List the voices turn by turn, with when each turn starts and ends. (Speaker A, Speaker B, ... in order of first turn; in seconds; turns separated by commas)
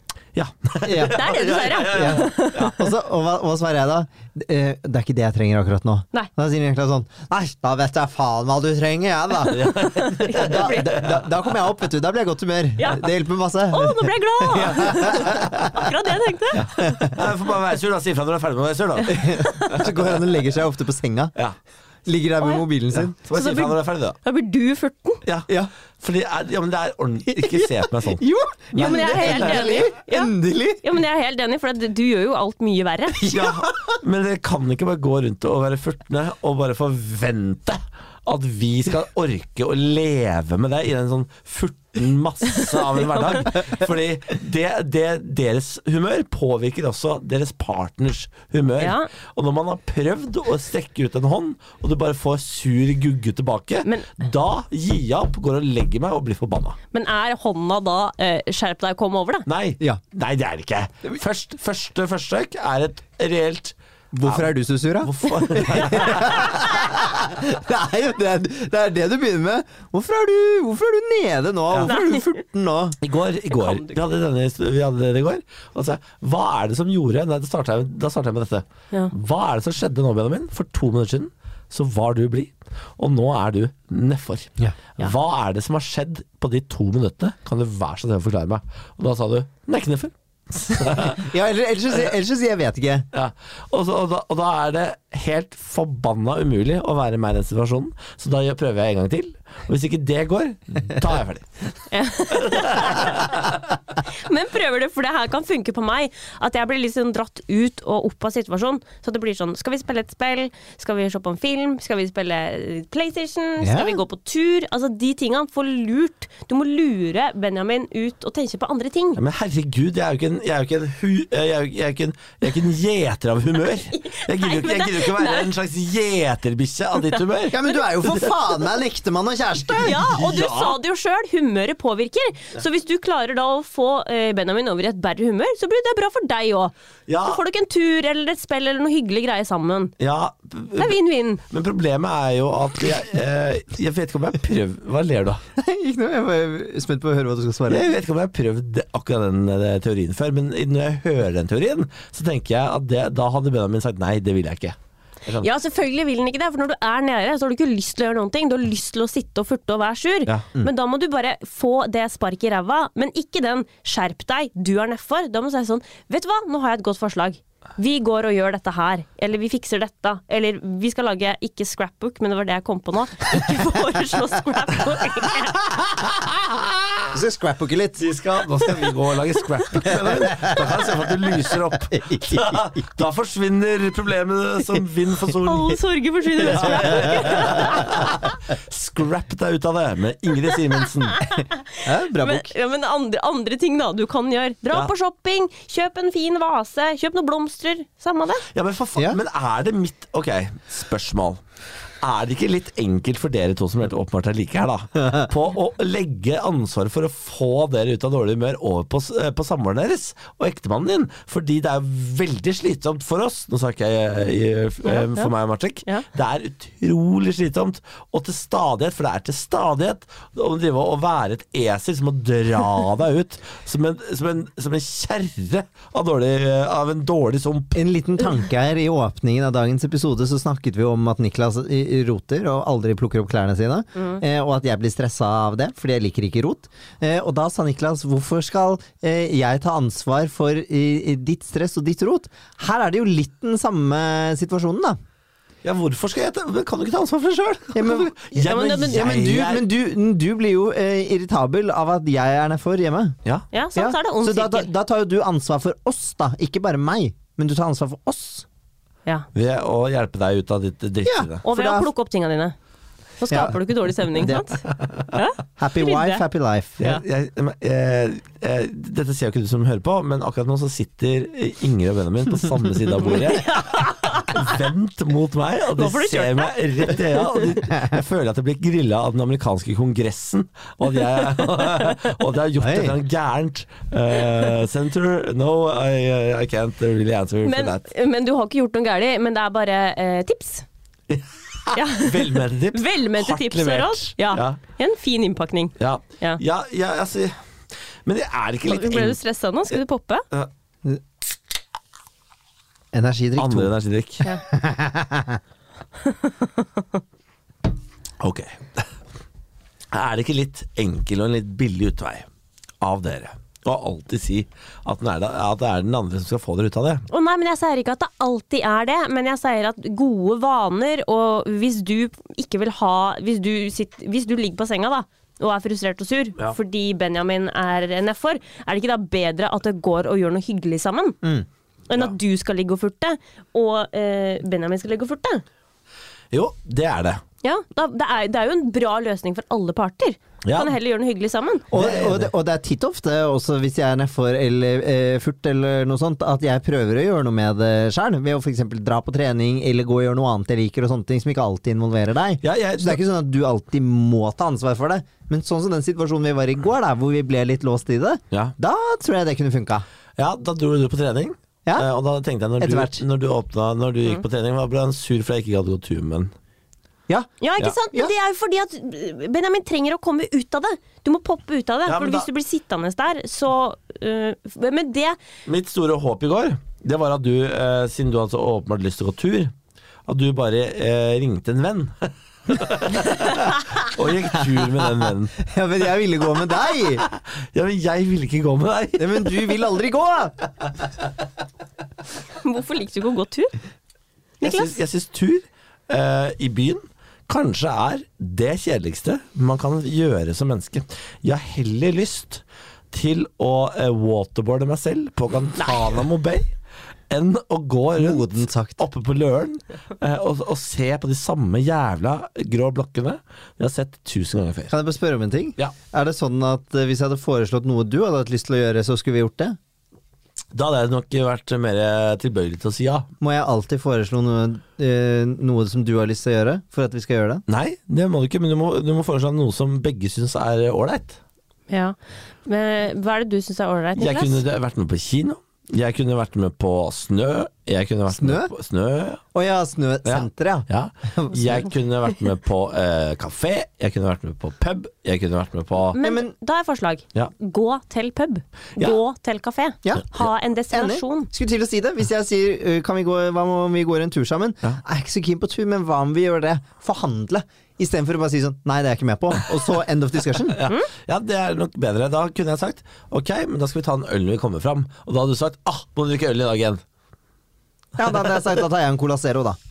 Speaker A: 0.3-2.7, Speaker B: 0.8-1.2, Speaker C: 1.1-2.7, Speaker B: 1.8-15.8, Speaker A: 9.4-11.5, Speaker C: 10.0-10.9, Speaker C: 12.8-13.1, Speaker C: 13.7-16.9, Speaker A: 16.5-20.2, Speaker B: 16.8-17.2, Speaker B: 19.1-21.3, Speaker C: 19.2-19.7, Speaker B: 22.1-23.1, Speaker A: 22.9-24.2, Speaker C: 23.3-25.2, Speaker A: 25.2-28.2, Speaker B: 27.3-30.8, Speaker A: 28.7-29.8, Speaker C: 28.8-33.3, Speaker B: 33.2-34.0, Speaker A: 33.2-56.8, Speaker C: 43.1-43.4, Speaker C: 48.8-49.1, Speaker C: 53.8-54.1, Speaker C: 56.9-59.5, Speaker A: 59.5-66.6, Speaker B: 64.1-73.0, Speaker C: 71.8-72.3, Speaker A: 73.0-91.2, Speaker C: 73.5-74.0, Speaker B: 90.9-93.1, Speaker A: 93.1-101.6, Speaker C: 101.9-103.4, Speaker A: 102.3-103.4, Speaker C: 104.1-119.2, Speaker B: 113.6-114.0, Speaker A: 119.2-128.3, Speaker C: 123.9-125.5, Speaker B: 127.5-130.0, Speaker C: 129.8-139.9, Speaker A: 129.8-130.8, Speaker A: 137.1-137.4, Speaker A: 140.0-145.4, Speaker C: 140.8-141.4, Speaker B: 145.6-147.9, Speaker A: 147.7-155.5, Speaker C: 155.4-175.7, Speaker B: 177.1-178.1, Speaker A: 178.0-185.8, Speaker B: 179.8-180.9, Speaker B: 181.9-182.7, Speaker C: 185.4-188.0, Speaker A: 186.4-191.3, Speaker B: 186.7-187.8, Speaker C: 191.2-198.4, Speaker B: 191.8-192.5, Speaker A: 198.5-201.4, Speaker A: 202.0-227.8, Speaker C: 214.8-215.3, Speaker B: 227.7-245.0, Speaker C: 233.9-234.2, Speaker A: 245.6-249.6, Speaker B: 247.7-253.2, Speaker C: 248.4-249.1, Speaker C: 253.5-254.7, Speaker B: 253.7-258.4, Speaker A: 259.3-261.4, Speaker B: 261.0-261.9, Speaker C: 261.4-262.5, Speaker C: 263.2-266.2, Speaker B: 263.3-264.4, Speaker B: 265.6-267.0, Speaker A: 266.8-273.6, Speaker C: 273.0-274.6, Speaker A: 274.3-287.9, Speaker C: 275.7-277.6, Speaker B: 282.6-283.0, Speaker C: 287.4-290.6, Speaker A: 291.1-294.6, Speaker C: 291.7-296.4, Speaker A: 295.8-297.4, Speaker A: 298.0-299.2, Speaker C: 298.7-300.2, Speaker B: 302.9-303.7, Speaker A: 303.4-304.2, Speaker B: 304.4-305.4, Speaker C: 306.0-306.8, Speaker A: 308.2-308.9, Speaker A: 309.9-312.2, Speaker A: 312.8-317.1, Speaker C: 317.1-331.2, Speaker C: 331.9-335.4, Speaker A: 336.3-337.2, Speaker C: 337.4-341.6, Speaker A: 340.4-340.7, Speaker B: 341.7-359.8, Speaker A: 341.7-342.3, Speaker A: 352.4-353.0, Speaker A: 360.2-366.3, Speaker B: 362.6-363.0, Speaker B: 367.1-367.3, Speaker C: 367.4-375.2, Speaker A: 371.9-372.3, Speaker A: 375.4-379.5, Speaker A: 380.1-385.4, Speaker B: 384.8-387.0, Speaker A: 386.8-389.5, Speaker B: 389.0-390.4, Speaker C: 392.4-393.5, Speaker C: 394.4-394.8, Speaker A: 394.4-406.5, Speaker C: 405.6-405.8, Speaker A: 407.1-414.7, Speaker B: 408.0-408.8, Speaker B: 414.7-419.6, Speaker A: 420.5-423.1, Speaker B: 423.2-427.4, Speaker A: 427.5-431.2, Speaker C: 431.7-434.4, Speaker A: 433.9-439.2, Speaker B: 438.1-438.5, Speaker B: 439.3-441.7, Speaker A: 440.0-446.0, Speaker C: 445.9-451.3, Speaker B: 446.0-446.3, Speaker B: 450.7-460.6, Speaker A: 460.5-466.8, Speaker B: 468.0-469.6, Speaker A: 468.0-468.4